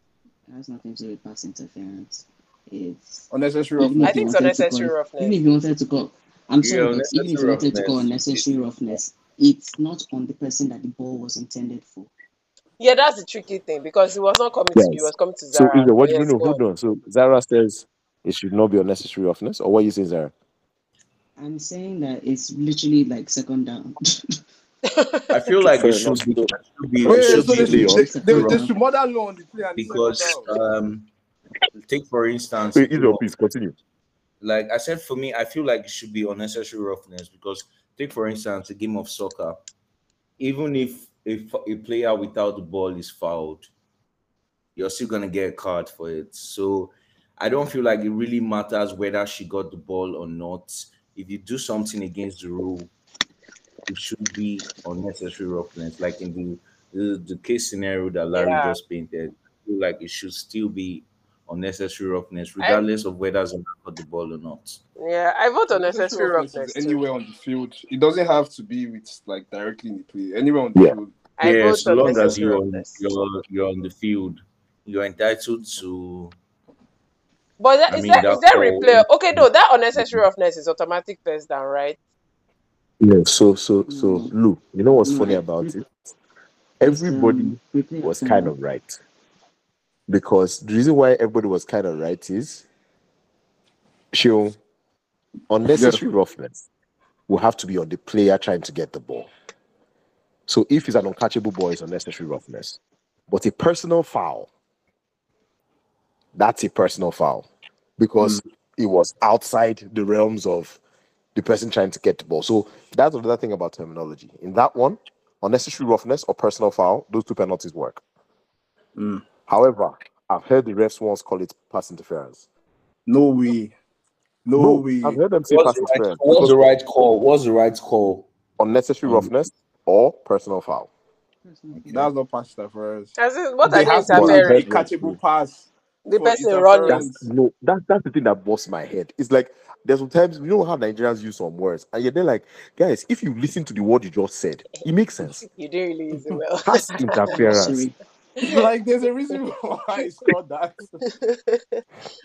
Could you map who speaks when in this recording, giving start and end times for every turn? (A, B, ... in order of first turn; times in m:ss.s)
0:00.5-0:12.1 A
0:03.3-0:04.3 B
0:04.0-0:05.4 C
0:06.6-0:09.0 D
0:12.8-0:16.6 C
0:14.7-0:20.3 E
0:21.4-0:24.4 A
0:24.9-0:25.3 C
0:25.3-0:28.7 D
0:25.6-0:26.5 E
0:27.0-0:30.5 B
0:27.1-0:28.0 E
0:27.1-0:28.7 A
0:29.8-0:31.1 D
0:31.7-0:33.2 D
0:32.7-0:33.7 E
0:34.4-0:39.6 D
0:40.4-0:43.7 D
0:44.8-0:52.9 D
0:53.8-1:04.8 D
0:58.3-0:58.8 C
1:05.0-1:07.0 C
1:05.7-1:11.1 B
1:11.4-1:13.0 C
1:11.4-1:16.3 D
1:17.6-1:22.0 C
1:17.9-1:20.3 D
1:23.0-1:25.8 E
1:23.9-1:24.3 A
1:25.0-1:25.8 A
1:26.8-1:29.0 E
1:26.8-1:28.5 A
1:30.1-1:32.6 E
1:34.1-1:34.6 E
1:35.5-1:36.6 E
1:35.7-1:36.0 B
1:37.3-1:39.3 E
1:40.5-1:44.5 E
1:46.3-1:47.4 E
1:48.0-1:50.8 E
1:51.3-1:58.0 E
1:59.0-1:59.2 B
1:59.5-2:02.4 E
2:03.1-2:03.7 B
2:04.4-2:05.2 B
2:04.5-2:06.7 E
2:05.5-2:08.3 D
2:08.6-2:10.9 E
2:09.0-2:09.4 D
2:11.4-2:12.0 A
2:11.7-2:12.1 D
2:11.9-2:17.2 B
2:13.2-2:14.6 C
2:14.1-2:15.2 E
2:16.0-2:17.1 C
2:16.9-2:25.4 E
2:25.4-2:27.6 C
2:26.6-2:27.8 E
2:27.0-2:27.9 A
2:28.4-2:28.7 C
2:28.4-2:31.0 B
2:31.1-2:31.8 C